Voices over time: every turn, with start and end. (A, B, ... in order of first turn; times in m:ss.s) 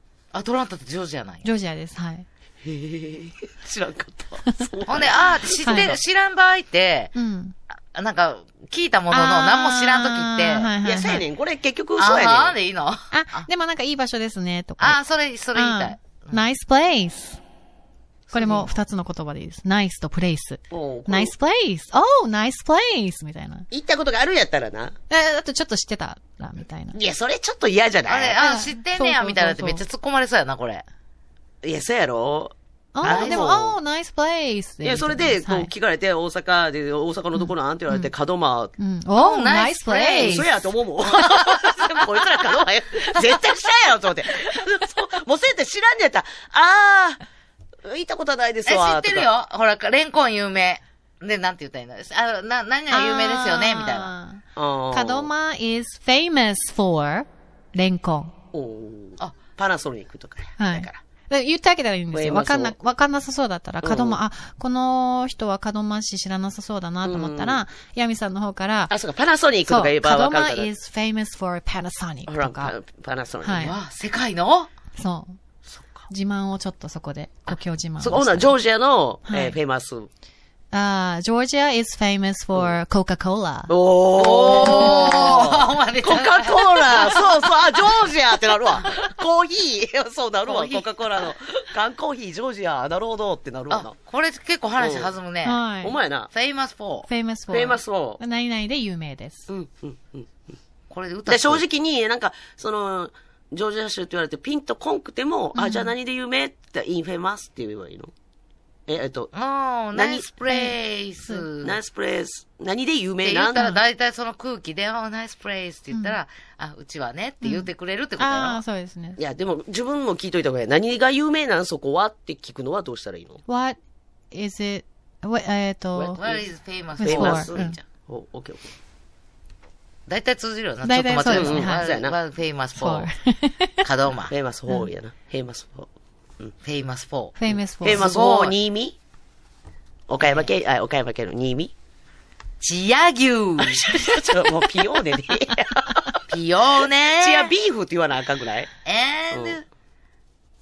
0:00.3-0:01.4 A
0:01.4-0:02.3 B
0:02.6-0:06.0 C
0:04.9-0:07.1 A
0:05.6-0:06.0 B
0:07.2-0:07.6 B
0:07.9-0:10.7 A
0:09.1-0:11.2 B
0:10.8-0:12.6 C
0:12.0-0:13.5 A
0:13.1-0:15.0 B
0:14.8-0:16.5 A
0:15.5-0:17.4 B
0:18.3-0:23.7 B
0:20.7-0:21.3 C
0:23.7-0:25.0 C
0:25.1-0:27.0 B
0:26.9-0:28.4 C
0:28.1-0:30.8 A
0:28.4-0:29.8 B
0:31.6-0:33.8 C
0:33.0-0:35.7 B
0:33.0-0:33.5 A
0:34.8-0:38.7 C
0:37.4-0:38.1 B
0:38.8-0:40.6 B
0:39.2-0:40.5 A
0:40.2-0:47.2 C
0:41.1-0:42.1 A
0:43.1-0:43.4 A
0:47.8-0:49.3 C
0:48.7-0:54.1 A
0:52.9-0:58.3 B
0:54.6-0:55.3 C
0:58.5-1:01.0 C
1:00.6-1:08.9 B
1:02.1-1:02.7 C
1:03.8-1:04.2 C
1:07.0-1:07.6 C
1:08.9-1:10.7 C
1:09.7-1:12.7 B
1:12.3-1:13.8 C
1:13.4-1:13.7 B
1:13.6-1:14.7 A
1:15.0-1:15.4 B
1:15.7-1:16.0 C
1:16.1-1:18.5 B
1:18.0-1:20.1 C
1:19.3-1:19.6 B
1:20.7-1:23.7 B
1:23.7-1:34.0 C
1:24.1-1:28.1 A
1:28.7-1:29.0 A
1:30.5-1:31.3 A
1:33.7-1:35.6 A
1:34.8-1:35.1 C
1:35.4-1:36.0 B
1:35.8-1:36.3 C
1:36.3-1:37.1 A
1:37.1-1:39.5 B
1:37.5-1:38.2 C
1:39.5-1:40.5 C
1:40.9-1:41.6 A
1:41.3-1:48.1 C
1:45.6-1:45.9 B
1:48.9-1:49.3 C
1:49.3-1:51.8 A
1:49.9-1:50.3 C
1:51.6-1:53.8 C
1:53.2-1:58.6 A
1:55.9-1:56.2 B
1:57.4-1:59.2 B
1:59.2-2:03.4 C
2:03.5-2:03.8 B
2:04.3-2:06.2 B
2:06.1-2:07.8 A
2:06.2-2:06.4 C
2:07.0-2:07.8 B
2:07.0-2:08.7 C
2:10.1-2:13.1 A
2:10.8-2:11.9 B
2:11.3-2:12.2 C
2:12.7-2:13.8 B
2:13.8-2:14.3 A
2:14.3-2:15.9 C
2:16.6-2:18.6 A
2:17.4-2:18.0 B
2:17.8-2:19.0 C
2:20.1-2:21.7 C
2:20.2-2:20.5 A
2:22.6-2:23.9 A
2:23.6-2:26.2 C
2:26.3-2:27.5 A
2:27.2-2:28.7 C
2:28.9-2:29.6 A
2:29.3-2:29.6 C